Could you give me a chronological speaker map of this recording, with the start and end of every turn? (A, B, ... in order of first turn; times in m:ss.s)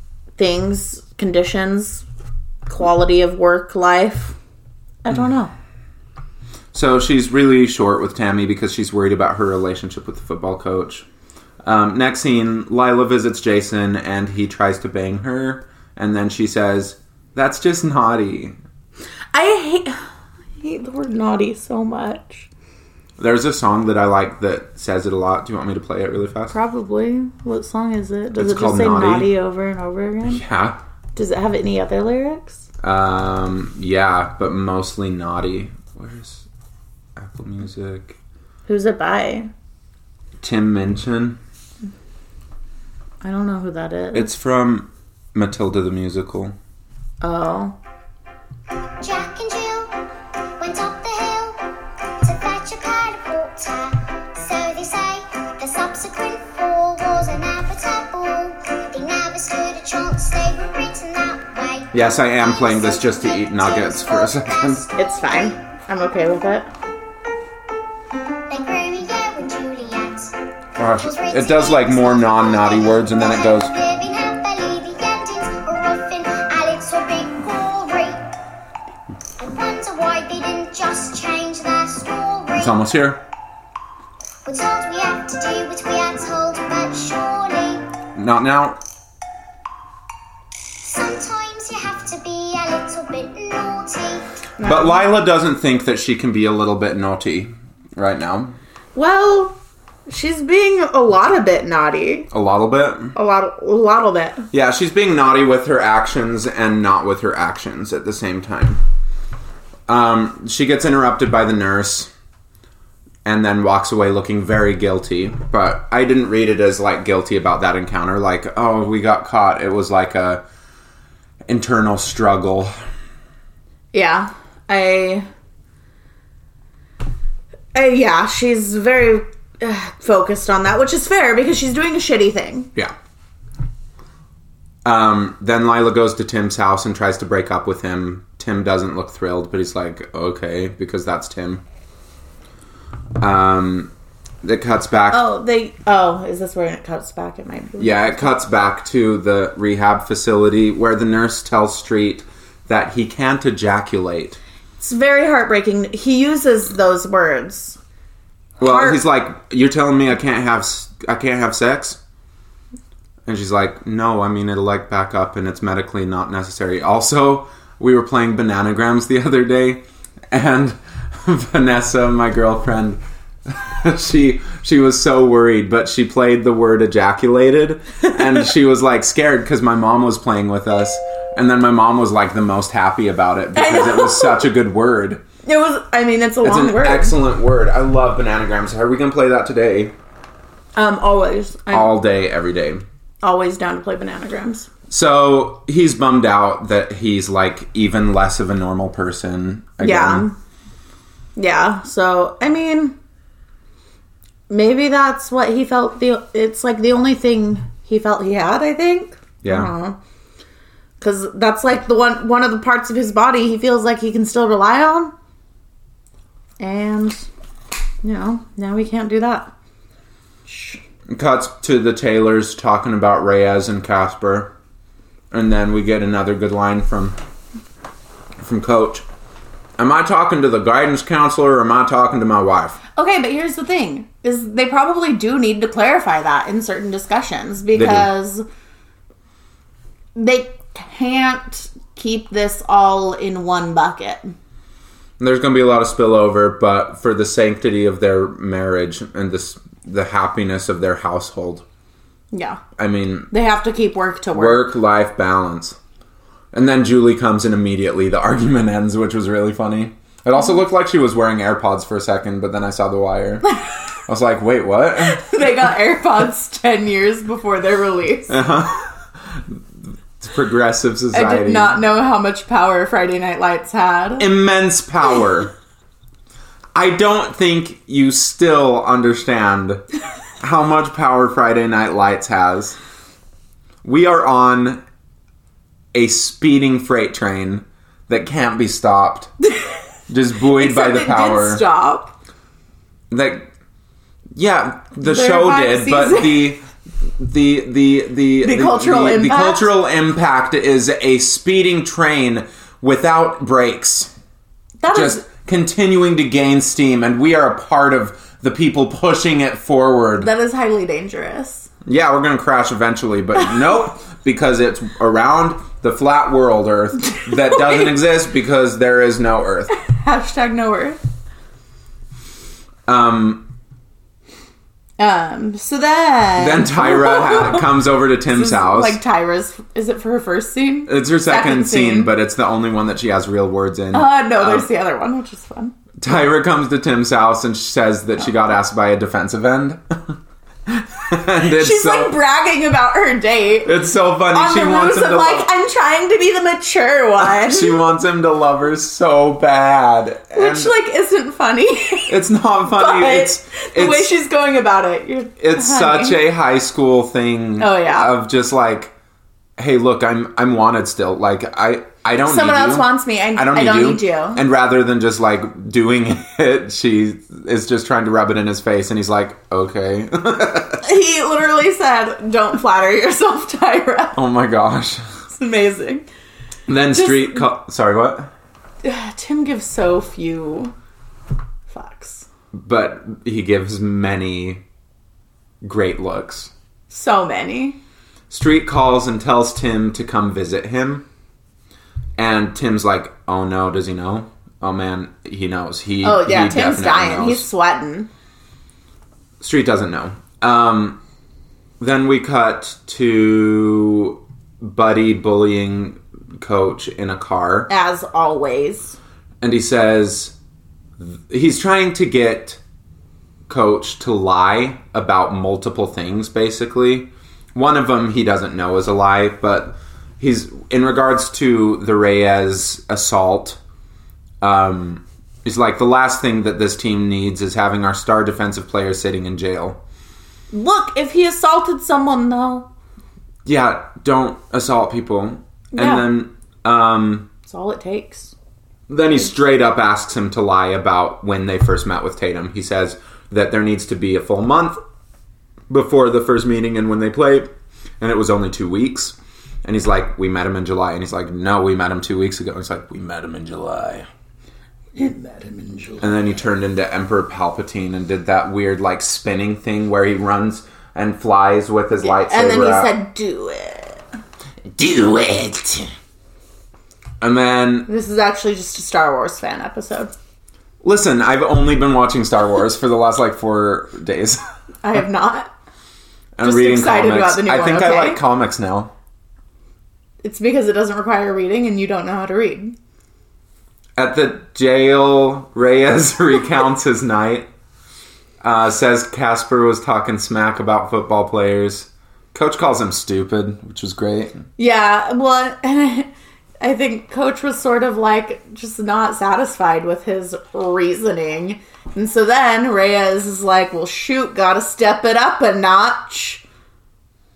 0:00.4-0:02.0 A
0:02.7-0:04.4 A
0:05.0-0:05.5 A
0:06.7-0:11.0 B
0:11.6-0:18.6 B
0:19.3-0:20.0 A
0:20.6-0:22.5 A
0:23.2-0:26.6 B
0:26.5-0:30.4 A
0:28.4-0:29.3 B
0:30.3-0:30.8 B
0:31.2-0:32.6 A
0:32.8-0:36.4 B
0:37.2-0:38.2 B
0:38.7-0:39.5 A
0:40.4-0:41.4 B
0:43.2-0:44.3 A
0:44.1-0:46.6 B
0:47.2-0:47.8 A
0:49.0-0:50.0 C
0:50.6-0:51.7 C
0:52.2-1:05.6 C
1:01.9-1:04.8 B
1:05.0-1:06.7 A
1:08.5-1:10.4 C
1:10.8-1:13.7 B
1:11.0-1:18.3 C
1:19.4-1:22.8 C
1:22.6-1:23.2 B
1:24.4-1:27.9 C
1:28.2-1:28.8 B
1:30.8-1:34.3 C
1:34.6-1:35.0 A
1:34.6-1:38.6 B
1:39.0-1:39.6 A
1:40.1-1:42.3 A
1:42.3-1:43.1 B
1:43.2-1:44.4 A
1:44.5-1:48.8 B
1:49.9-1:52.1 B
1:53.2-2:00.4 B
2:01.5-2:02.8 B
2:03.9-2:05.3 A
2:07.7-2:12.7 A
2:14.8-2:21.6 B
2:23.2-2:23.9 B
2:24.4-2:25.2 B
2:25.1-2:28.2 A
2:27.8-2:34.4 B
2:34.8-2:37.8 A
2:38.6-2:42.0 B
2:38.6-2:39.0 A
2:43.3-3:05.2 B
3:03.6-3:04.5 A
3:05.4-3:07.2 A
3:06.4-3:09.9 B
3:10.8-3:11.9 A
3:11.7-3:12.8 B
3:13.2-3:14.7 A
3:14.9-3:20.3 B
3:19.8-3:20.4 A
3:21.4-3:23.0 A
3:24.5-3:30.0 A
3:29.4-3:29.7 B
3:31.0-3:35.1 A
3:36.6-3:37.3 A
3:38.0-3:39.5 A
3:40.5-3:40.8 A
3:41.1-3:44.5 B
3:45.3-3:47.2 B
3:48.4-3:49.0 B
3:49.8-3:52.8 B
3:53.0-3:58.4 A
3:57.8-3:58.1 B
4:00.2-4:04.3 A
4:05.2-4:11.6 B
4:12.3-4:12.6 A
4:12.8-4:13.3 B
4:13.3-4:14.7 A
4:14.3-4:15.8 B
4:16.5-4:23.5 B
4:24.1-4:25.4 B
4:25.0-4:28.4 A
4:28.3-4:29.6 B
4:30.2-4:31.8 B
4:31.1-4:34.3 A
4:34.2-4:35.5 B
4:36.7-4:39.8 B
4:40.4-4:42.8 B
4:43.8-4:44.8 B
4:45.9-4:49.3 B
4:50.1-4:51.6 B
4:50.6-4:52.1 A
4:53.1-4:53.5 B
4:54.4-4:56.6 B
4:55.0-4:56.5 A
4:57.2-5:04.1 B
4:58.4-4:59.7 A
5:04.8-5:05.2 A
5:04.9-5:10.3 B
5:10.2-5:11.7 A
5:11.8-5:19.7 B
5:19.7-5:21.0 A
5:22.9-5:23.5 B
5:25.0-5:27.7 A
5:26.4-5:29.0 B
5:28.3-5:32.1 A
5:30.9-5:34.7 B
5:33.9-5:35.8 A
5:36.0-5:42.1 B
5:41.5-5:43.8 A
5:43.6-5:45.5 B
5:44.3-5:47.8 A
5:47.2-5:50.7 B
5:50.3-5:52.2 A
5:52.1-5:54.1 B
5:52.7-5:56.2 A
5:55.4-5:58.9 B
5:57.6-5:58.1 A
5:59.6-6:10.8 B
6:02.2-6:04.4 A
6:10.8-6:14.2 A
6:14.2-6:15.0 B
6:15.3-6:16.1 A
6:16.7-6:18.3 B
6:16.9-6:17.4 A
6:18.8-6:20.7 A
6:21.7-6:22.3 A
6:22.5-6:24.6 B
6:25.6-6:26.5 B
6:26.9-6:27.8 A
6:28.3-6:31.1 B
6:32.2-6:37.5 B
6:36.0-6:38.1 A
6:39.4-6:41.0 B
6:41.8-6:47.7 B
6:47.7-6:49.0 A
6:49.4-6:50.4 B
6:51.0-6:52.6 B
6:53.5-7:03.6 B
7:04.4-7:09.8 B
7:10.5-7:12.7 A
7:13.4-7:17.3 B
7:15.7-7:16.1 A
7:17.5-7:18.3 A
7:18.9-7:24.8 B
7:25.7-7:27.5 B
7:28.0-7:34.1 B
7:35.0-7:36.2 A
7:36.0-7:42.9 B
7:42.0-7:44.0 A
7:44.8-7:45.9 B
7:47.2-7:47.9 B
7:47.9-7:50.1 A
7:50.8-7:54.4 B
7:54.8-7:55.5 A
7:56.4-7:58.9 B
7:56.4-7:58.2 A
8:00.2-8:02.8 A
8:04.0-8:07.5 B
8:08.4-8:14.4 B
8:14.6-8:16.1 A
8:16.6-8:26.4 A